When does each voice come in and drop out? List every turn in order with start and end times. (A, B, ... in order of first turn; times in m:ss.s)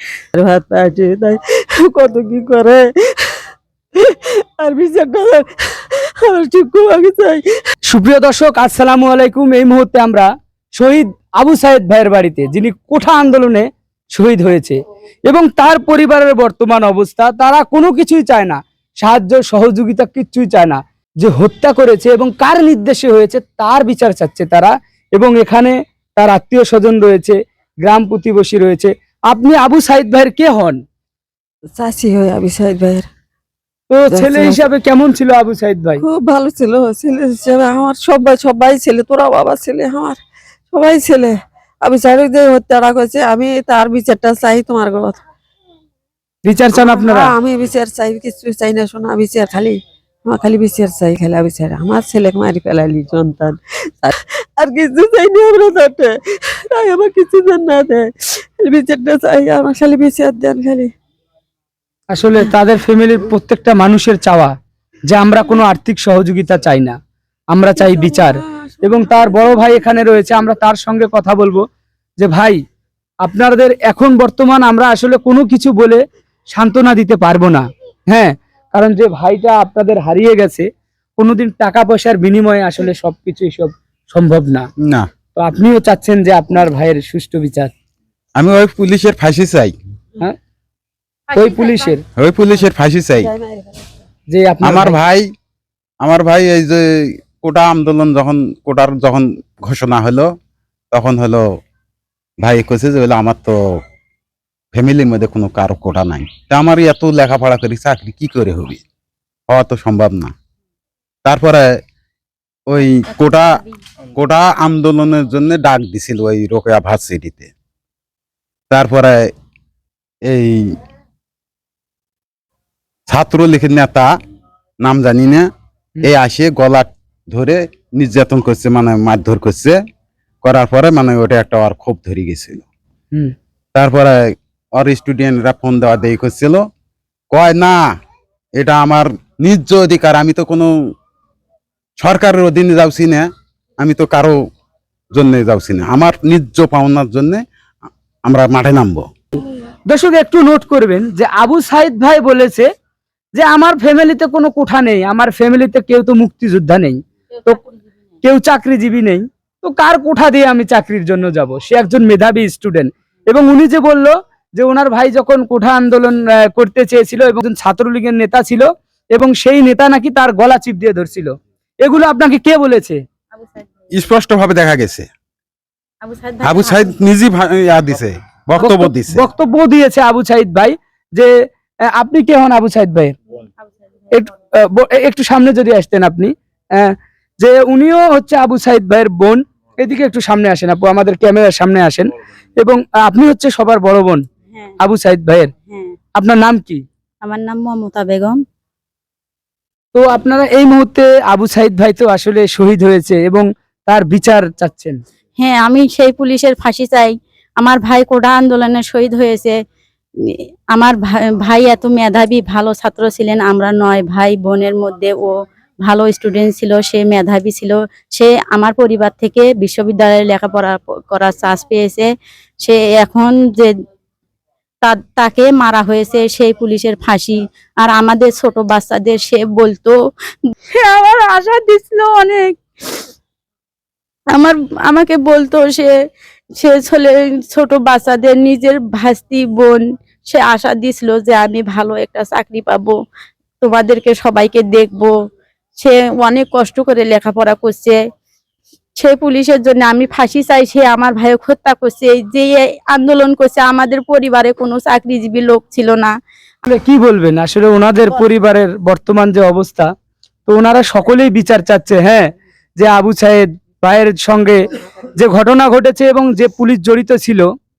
0:00.3-0:03.3 A
0:04.0-0:07.4 A
0:07.9-0:30.8 B
0:31.7-0:33.0 A
0:33.9-0:36.0 B
0:34.1-0:34.6 A
0:36.0-0:40.2 A
0:40.7-0:45.2 A
0:46.4-0:47.3 B
0:46.7-1:00.9 A
1:02.1-1:04.5 B
1:05.1-1:07.0 B
1:07.5-1:11.6 B
1:07.8-1:09.8 A
1:12.2-1:12.6 B
1:13.2-1:16.0 B
1:16.5-1:20.7 B
1:21.2-1:24.7 B
1:25.4-1:27.7 B
1:28.4-1:29.7 C
1:31.3-1:32.0 B
1:31.4-1:31.8 D
1:32.2-1:33.3 C
1:33.2-1:33.8 A
1:34.3-1:35.0 B
1:34.6-1:35.3 C
1:36.0-1:40.3 C
1:40.9-1:41.4 C
1:42.4-1:43.6 C
1:44.7-1:48.8 C
1:49.5-1:50.3 C
1:51.2-1:51.8 C
1:52.7-1:53.6 C
1:53.1-1:53.8 D
1:54.2-1:57.5 C
1:58.7-1:59.3 C
2:00.2-2:00.7 C
2:03.1-2:04.1 C
2:04.8-2:05.5 C
2:06.0-2:09.8 C
2:10.4-2:12.6 C
2:13.7-2:16.6 C
2:17.3-2:17.8 C
2:18.6-2:20.7 C
2:22.0-2:23.3 C
2:23.8-2:24.4 C
2:25.1-2:27.4 C
2:28.2-2:29.0 C
2:29.9-2:32.7 B
2:33.3-2:37.6 B
2:38.2-2:51.3 B
2:51.8-2:53.0 B
2:53.3-2:53.7 D
2:53.9-2:55.1 C
2:56.0-2:56.9 D
2:56.4-2:59.2 C
2:58.6-3:01.3 B
3:01.9-3:03.2 B
3:04.1-3:14.2 B
3:14.5-3:14.8 D
3:14.8-3:15.5 B
3:15.7-3:16.0 D
3:16.2-3:16.8 B
3:17.2-3:18.4 D
3:19.9-3:25.0 B
3:25.4-3:29.5 D
3:30.3-3:42.1 D
3:42.6-3:43.7 D
3:44.8-3:49.9 D
3:50.5-3:52.5 D
3:54.3-3:55.9 D
3:56.6-4:03.0 D
4:03.6-4:05.1 D
4:05.8-4:08.0 D
4:09.0-4:16.1 D
4:16.6-4:19.9 B
4:20.5-4:27.5 B